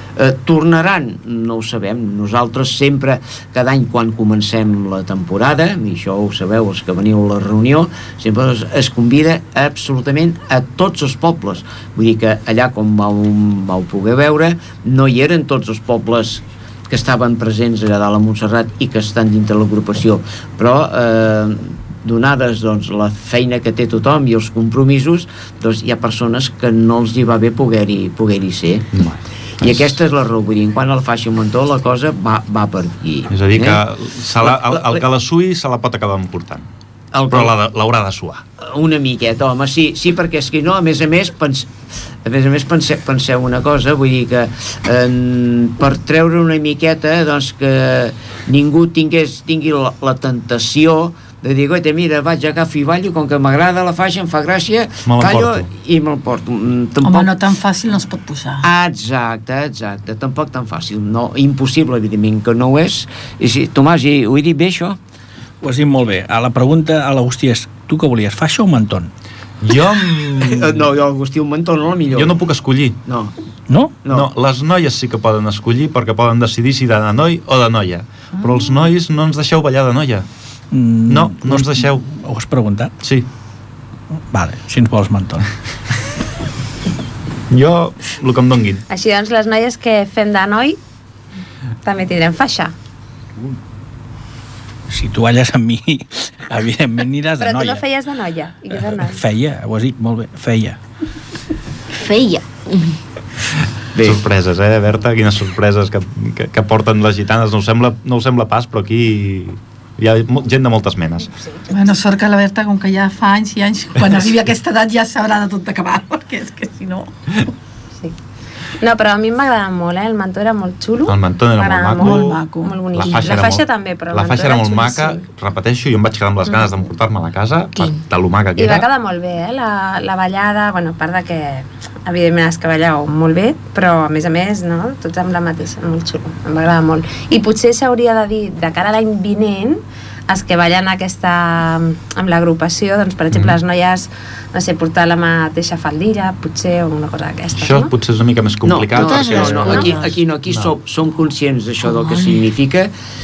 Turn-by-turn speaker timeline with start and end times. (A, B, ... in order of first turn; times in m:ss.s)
0:00.2-0:28.9 A
0:28.9-0:29.9 B
0:29.6-0:33.8 A
0:33.3-0:36.7 B
0:34.4-0:35.0 A
0:37.1-0:37.5 A
0:37.3-0:38.4 B
0:38.6-0:41.7 A
0:42.2-0:57.4 A
0:55.0-0:55.7 B
0:57.0-0:58.6 C
0:58.6-1:05.0 A
1:05.6-1:09.1 D
1:09.6-1:10.8 B
1:10.4-1:12.4 A
1:12.1-1:13.0 B
1:13.1-1:13.3 A
1:13.7-1:14.0 D
1:14.1-1:20.3 B
1:20.7-1:22.9 D
1:21.1-1:22.0 B
1:23.0-1:23.3 B
1:24.3-1:25.5 D
1:27.5-1:28.8 B
1:28.9-1:30.8 E
1:31.8-1:32.7 E
1:34.9-1:37.8 D
1:37.4-1:39.2 E
1:38.8-1:40.8 D
1:41.9-1:43.0 F
1:43.9-1:44.2 A
1:44.0-1:51.3 B
1:51.7-1:57.1 C
1:58.8-2:05.2 E
2:01.0-2:02.4 B
2:02.0-2:02.8 C
2:02.9-2:08.9 B
2:08.6-2:27.9 E
2:23.3-2:23.6 B
2:27.5-2:30.7 B
2:28.6-2:32.9 A
2:29.0-2:30.0 F
2:32.0-2:32.3 F